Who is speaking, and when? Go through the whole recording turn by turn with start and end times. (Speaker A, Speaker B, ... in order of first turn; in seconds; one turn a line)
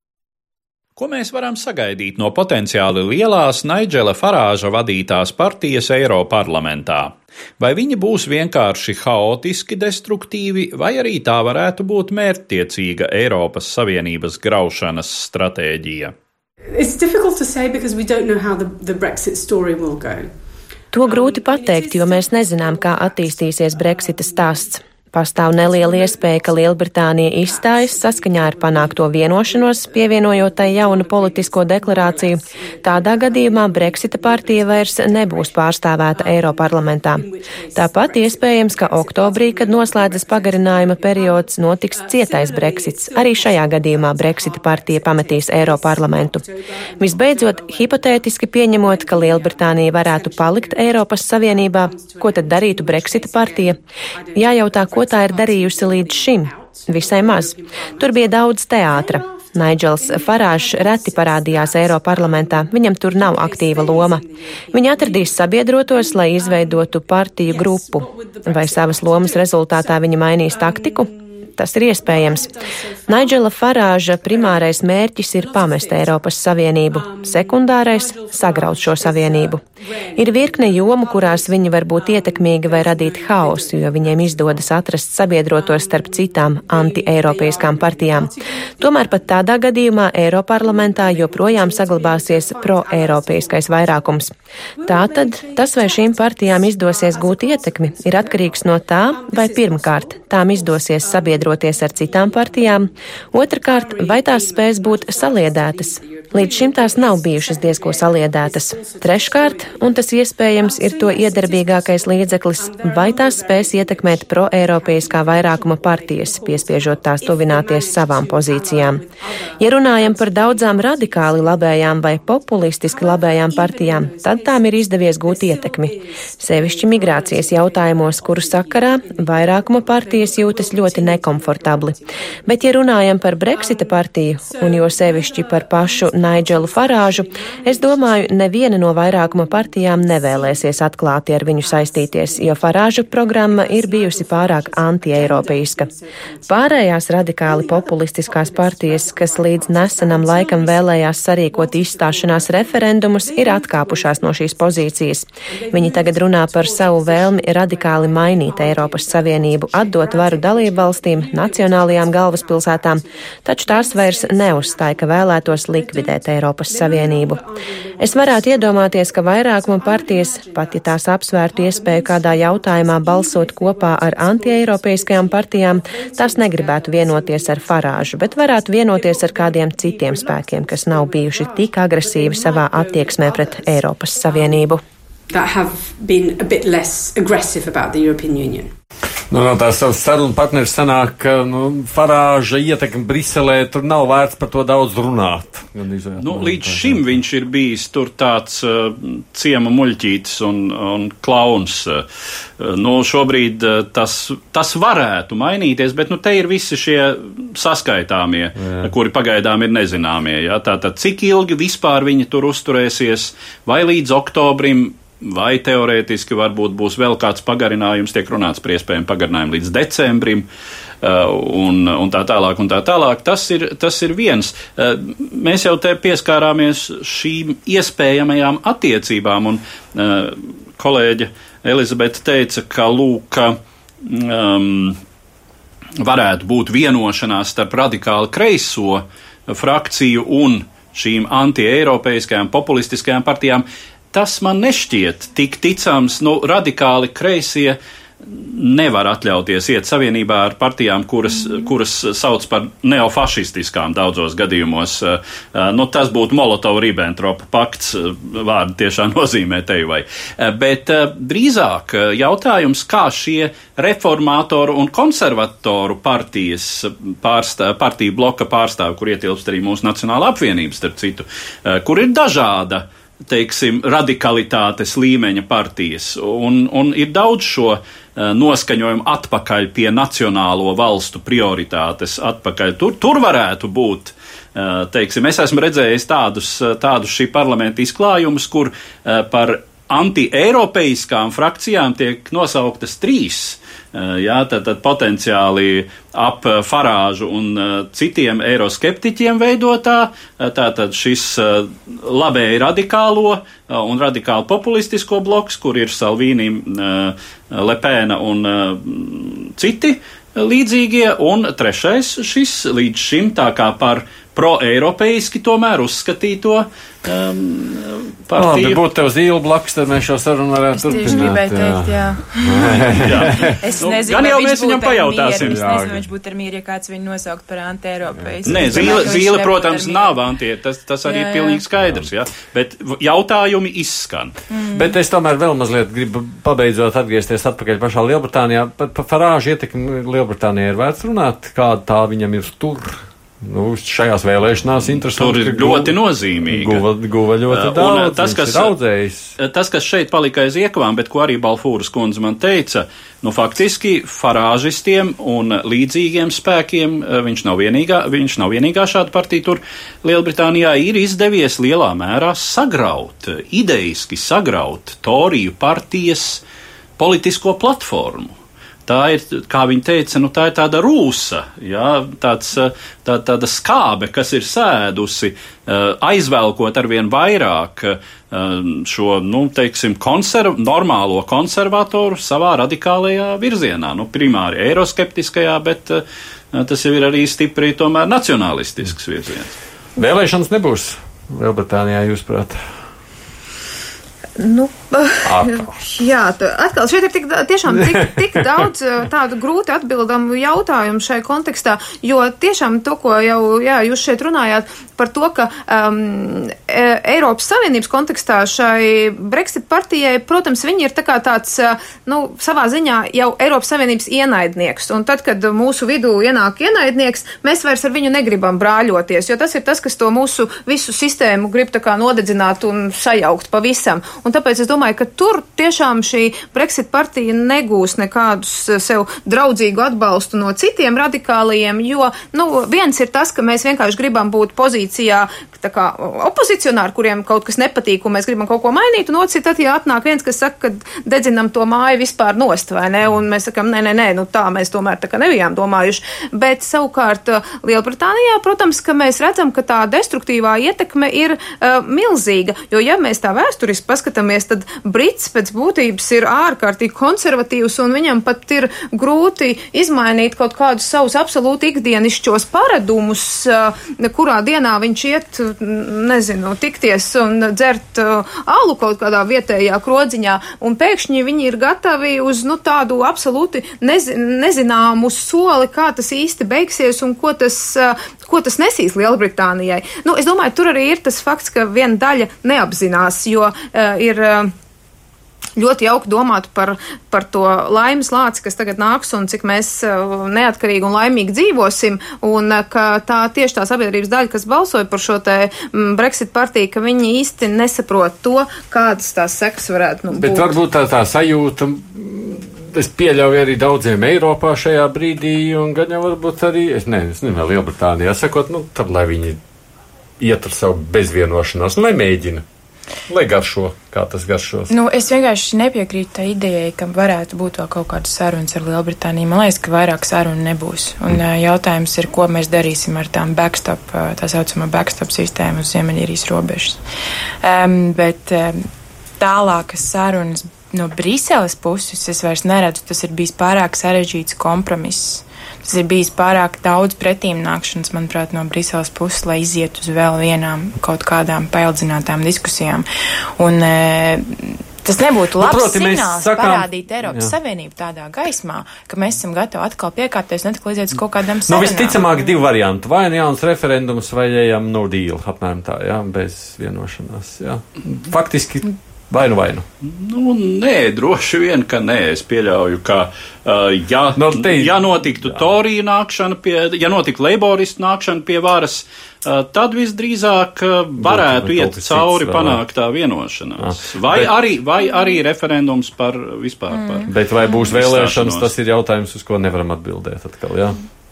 Speaker A: 1.0-16.1
Speaker B: 16.7-20.4
Speaker C: 20.9-46.5
Speaker B: 21.0-24.8
Speaker B: 25.4-73.5
Speaker C: 47.0-53.8
Speaker C: 54.3-72.5
Speaker C: 73.1-79.6
Speaker B: 74.1-89.5
Speaker C: 80.2-94.3
Speaker B: 90.5-94.2
Speaker B: 94.8-140.9
Speaker C: 94.9-119.0
Speaker C: 119.6-145.9
Speaker B: 141.6-184.7
Speaker C: 146.5-167.4
Speaker C: 168.0-184.8
Speaker B: 185.3-188.7
Speaker D: 189.3-197.2
Speaker A: 196.2-202.1
Speaker A: 202.6-220.5
Speaker D: 208.6-208.9
Speaker A: 221.0-235.0
Speaker A: 236.0-318.8
Speaker D: 318.3-323.6
Speaker E: 320.7-330.2
Speaker A: 323.0-325.7
Speaker D: 325.4-326.1
Speaker D: 328.1-329.1
Speaker A: 328.4-334.3
Speaker E: 331.1-331.6
Speaker D: 331.8-332.1
Speaker E: 334.5-334.9
Speaker D: 334.7-345.9
Speaker A: 345.1-346.8
Speaker D: 346.5-349.4
Speaker A: 347.5-348.7
Speaker A: 349.4-366.4
Speaker A: 367.0-368.3
Speaker A: 368.9-386.0
Speaker A: 386.5-389.6
Speaker D: 390.0-392.6
Speaker F: 394.4-484.5
Speaker D: 395.2-395.8
Speaker D: 397.7-398.7
Speaker F: 485.6-500.5
Speaker D: 500.1-509.4
Speaker D: 510.2-512.4
Speaker D: 513.1-514.7
Speaker E: 514.7-526.8
Speaker E: 527.4-528.6
Speaker E: 529.2-552.4
Speaker D: 545.4-547.3
Speaker D: 551.5-559.6
Speaker A: 559.8-578.5
Speaker D: 564.1-565.5
Speaker D: 571.0-572.6
Speaker D: 573.6-574.3
Speaker E: 576.8-577.6
Speaker D: 577.1-580.8